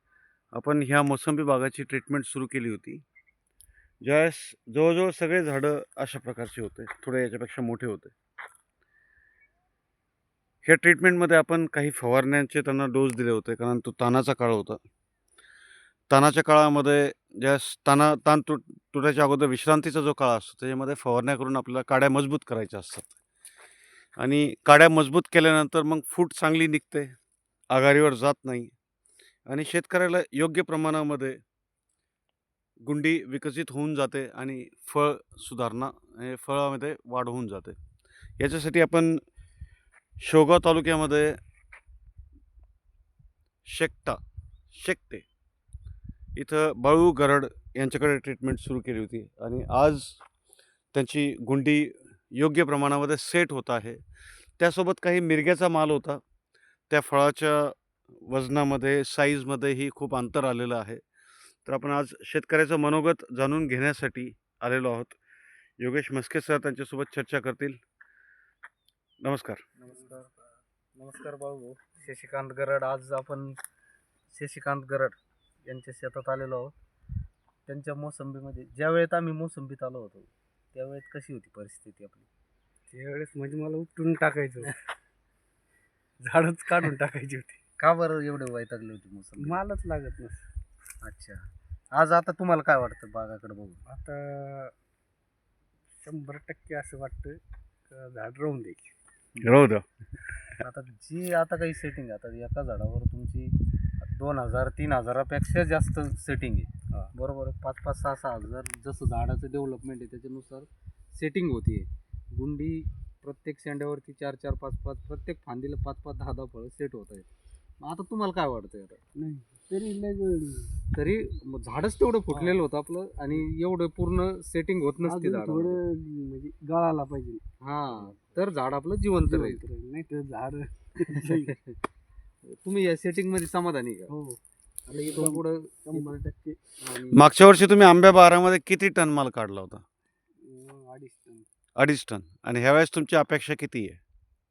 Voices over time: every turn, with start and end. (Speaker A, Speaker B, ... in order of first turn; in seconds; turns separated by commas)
Speaker A: 0.5-3.0, Speaker A: 4.0-8.1, Speaker A: 10.6-14.8, Speaker A: 16.1-23.1, Speaker A: 24.2-27.1, Speaker A: 27.7-28.7, Speaker A: 29.5-31.4, Speaker A: 32.8-37.8, Speaker A: 38.4-39.2, Speaker A: 40.2-41.4, Speaker A: 43.7-44.2, Speaker A: 44.7-45.2, Speaker A: 46.4-50.2, Speaker A: 50.9-54.0, Speaker A: 54.6-56.2, Speaker A: 56.9-61.0, Speaker A: 61.6-65.2, Speaker A: 65.8-67.8, Speaker A: 69.2-69.6, Speaker B: 69.8-70.3, Speaker B: 70.9-73.6, Speaker B: 74.3-76.7, Speaker B: 77.7-82.2, Speaker C: 82.9-84.7, Speaker C: 86.2-87.6, Speaker B: 87.8-89.6, Speaker C: 89.4-90.4, Speaker B: 91.0-91.4, Speaker B: 91.9-93.8, Speaker C: 93.9-94.7, Speaker C: 96.0-97.4, Speaker C: 97.9-98.9, Speaker B: 99.3-99.6, Speaker A: 99.4-99.8, Speaker B: 100.6-117.3, Speaker B: 117.8-119.0, Speaker C: 119.1-120.7, Speaker B: 120.9-125.8, Speaker C: 125.0-127.4, Speaker B: 127.6-129.6, Speaker C: 129.2-131.5, Speaker B: 131.1-131.8, Speaker B: 132.4-134.1, Speaker C: 134.1-134.4, Speaker B: 134.9-136.2, Speaker C: 134.9-136.6, Speaker B: 136.8-137.3, Speaker A: 137.1-139.8, Speaker C: 140.4-141.4, Speaker A: 141.8-144.0